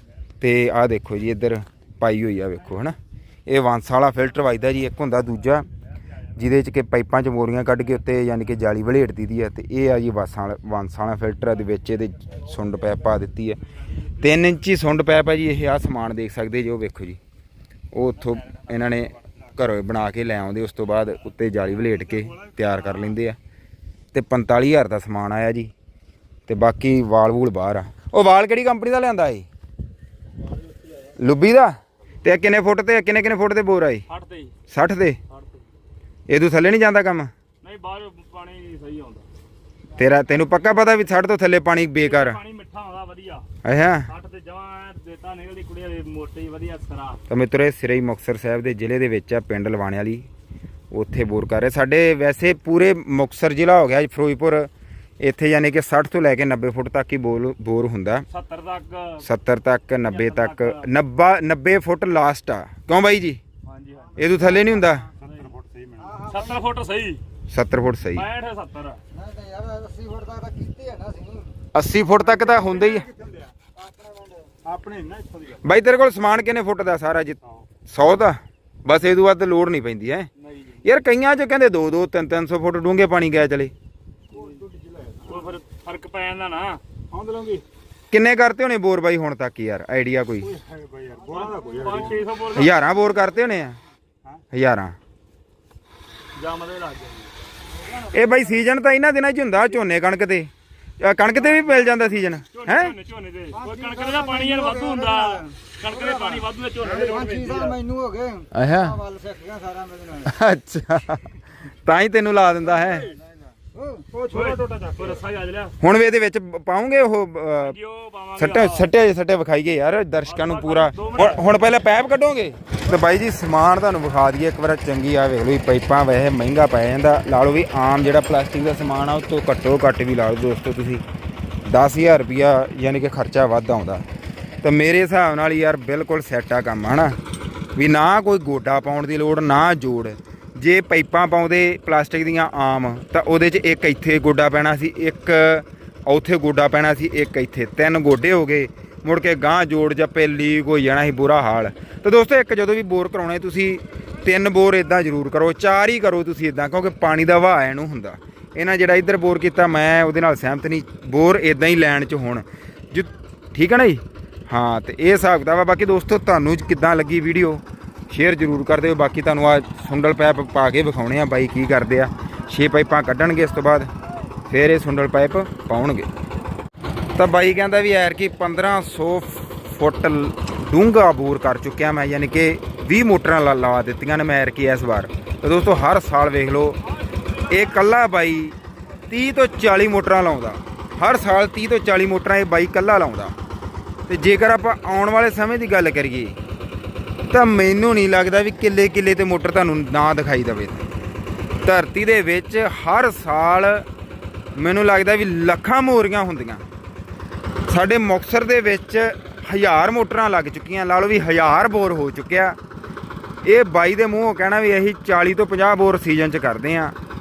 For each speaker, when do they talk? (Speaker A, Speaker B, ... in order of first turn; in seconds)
Speaker A: 0.4-5.7, 6.3-17.2, 17.9-23.4, 24.1-25.7, 26.5-29.5, 31.2-34.0, 34.7-35.2, 36.3-37.3, 40.0-42.4, 43.6-44.1, 47.3-50.3, 50.9-58.3, 59.2-63.4, 64.2-65.1, 67.5-68.3, 71.7-73.1, 75.6-80.3, 80.8-83.7, 88.1-90.5, 92.5-93.8, 94.5-95.0, 98.0-103.0, 108.5-109.1, 110.2-113.1, 115.8-117.8, 118.4-131.0, 131.7-134.1, 134.6-137.2, 137.8-173.9, 174.5-176.1, 177.2-186.8, 187.4-188.6, 189.1-193.3, 194.1-196.4, 197.3-200.9, 201.6-203.9, 204.6-206.6, 207.7-212.6, 213.4-216.9
Speaker B: 12.2-13.0, 22.0-23.1, 30.6-31.1, 34.1-34.5, 35.3-35.7, 37.6-39.3, 42.0-43.5, 44.1-47.2, 58.3-59.2, 60.0-60.9, 63.7-64.3, 65.2-65.5, 66.2-67.2, 68.1-69.0, 80.4-80.8, 85.2-86.8, 91.3-92.8, 96.4-97.3, 101.4-107.8, 112.8-113.1, 114.2-115.8, 117.6-118.9, 120.2-121.5, 186.9-187.9
Speaker C: 65.2-66.4, 72.2-73.5, 74.6-75.6, 84.5-85.5, 87.1-87.6, 90.4-92.2, 114.0-115.2
Speaker D: 69.3-71.5, 107.4-108.5, 109.0-110.2